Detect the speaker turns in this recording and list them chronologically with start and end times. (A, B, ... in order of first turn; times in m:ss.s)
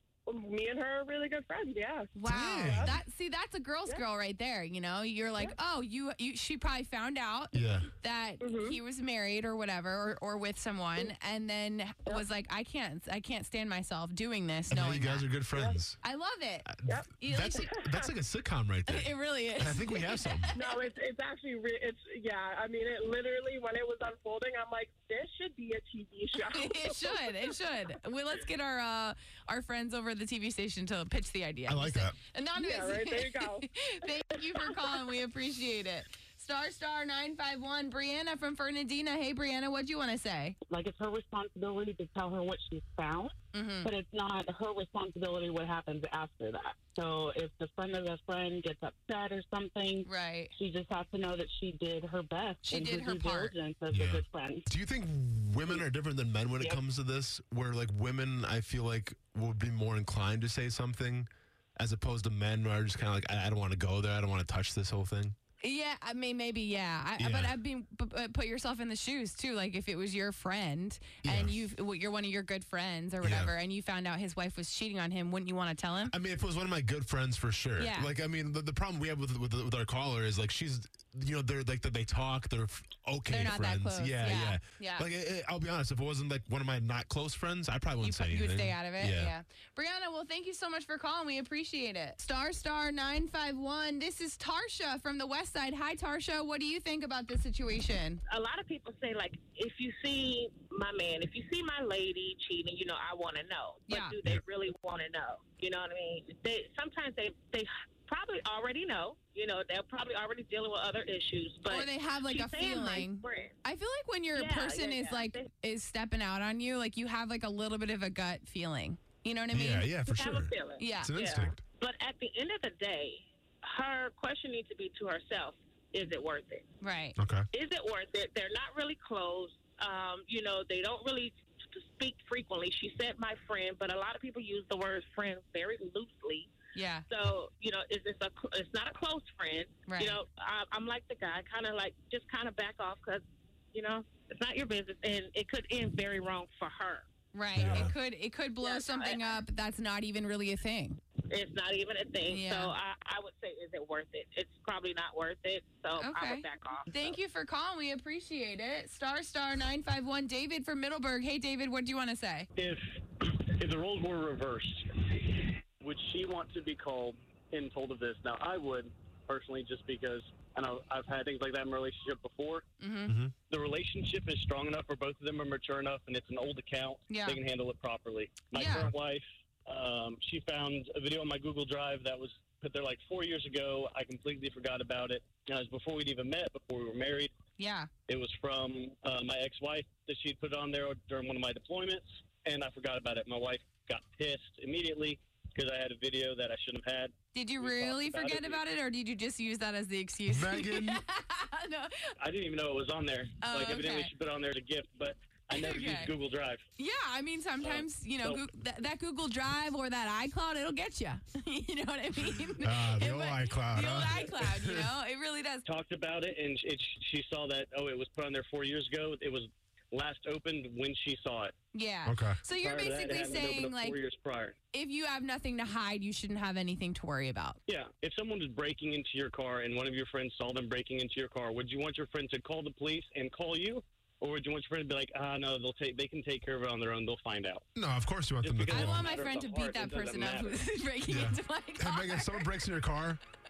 0:00.2-0:03.0 A
0:02.1-0:15.4 B
0:02.2-0:03.0 C
0:07.5-0:07.9 C
0:08.4-0:08.8 A
0:14.7-0:16.0 C
0:16.0-0:16.7 B
0:16.6-0:20.5 C
0:16.9-0:18.1 A
0:17.2-0:17.7 B
0:18.9-0:20.8 B
0:20.5-0:27.3 A
0:26.5-0:40.6 B
0:31.7-0:32.2 C
0:32.5-0:33.6 A
0:34.3-0:34.7 A
0:40.6-0:54.6 D
0:43.5-0:43.9 B
0:50.0-0:50.5 B
0:52.6-0:53.5 B
0:53.9-1:05.4 C
1:05.6-1:16.1 B
1:07.2-1:07.6 C
1:11.2-1:11.6 C
1:13.2-1:13.5 C
1:16.1-1:29.3 C
1:17.8-1:18.1 B
1:23.3-1:25.0 B
1:28.0-1:38.2 B
1:38.3-1:53.6 E
1:43.9-1:44.1 B
1:51.7-1:59.9 B
1:54.3-1:55.4 E
1:59.5-2:01.6 C
2:00.1-2:06.7 E
2:00.8-2:01.1 B
2:06.8-2:07.2 B
2:07.2-2:07.4 C
2:07.5-2:16.5 E
2:16.7-2:17.0 B
2:17.1-2:27.0 E
2:19.8-2:20.2 B
2:27.3-2:31.0 B
2:27.5-2:27.9 C
2:28.6-2:29.4 E
2:31.3-2:37.2 E
2:32.3-2:32.7 B
2:36.0-2:42.5 B
2:42.6-2:52.6 F
2:52.8-2:53.1 B
2:53.1-2:53.3 C
2:53.5-3:07.3 F
2:57.1-2:57.4 B
2:58.5-2:58.9 B
3:07.6-3:07.9 B
3:08.1-3:18.6 F
3:17.3-3:22.1 B
3:20.3-3:21.0 C
3:22.2-3:26.6 F
3:23.4-3:24.1 B
3:25.5-3:26.1 B
3:26.8-3:35.6 B
3:27.6-3:28.4 F
3:32.6-3:34.9 C
3:35.6-3:41.5 F
3:41.7-3:44.0 B
3:42.0-3:42.4 C
3:42.6-3:44.5 F
3:44.7-3:47.6 B
3:47.7-3:57.6 F
3:57.8-3:59.1 C
3:58.4-4:00.7 F
3:58.7-4:02.4 B
4:01.1-4:03.2 C